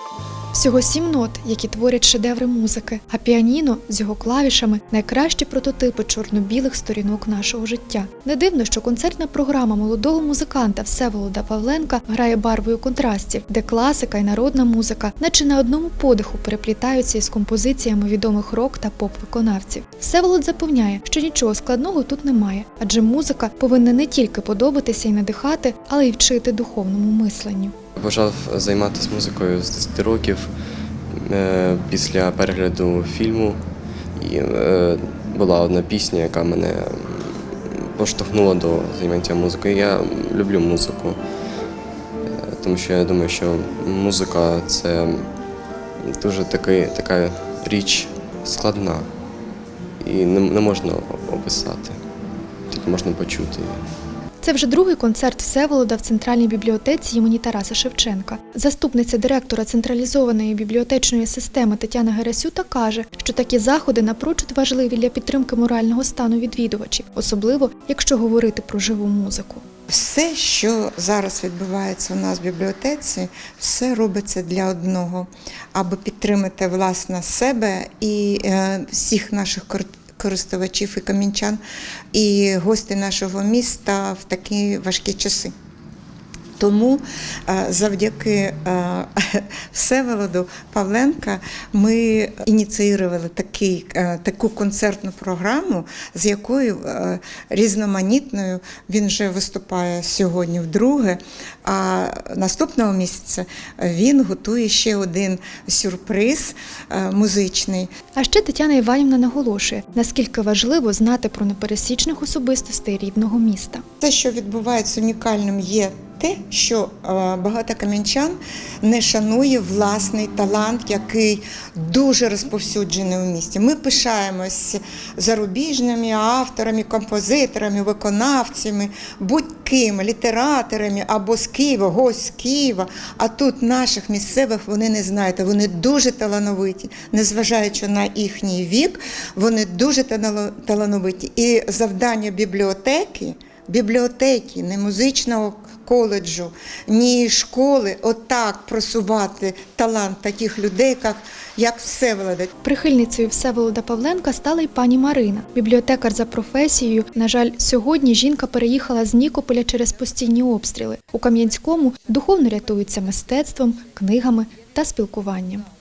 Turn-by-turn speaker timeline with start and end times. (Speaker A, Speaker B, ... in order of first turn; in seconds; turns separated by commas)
Speaker A: 0.5-27.7, Speaker B: 27.9-30.5, Speaker B: 31.2-33.6, Speaker B: 34.1-41.2, Speaker B: 42.2-45.3, Speaker B: 46.1-49.1, Speaker B: 50.0-52.0, Speaker B: 52.7-53.9, Speaker A: 54.4-69.6, Speaker C: 69.9-81.6, Speaker C: 82.1-85.5, Speaker C: 86.6-107.9, Speaker A: 108.1-113.8, Speaker C: 114.0-152.5, Speaker A: 152.6-165.7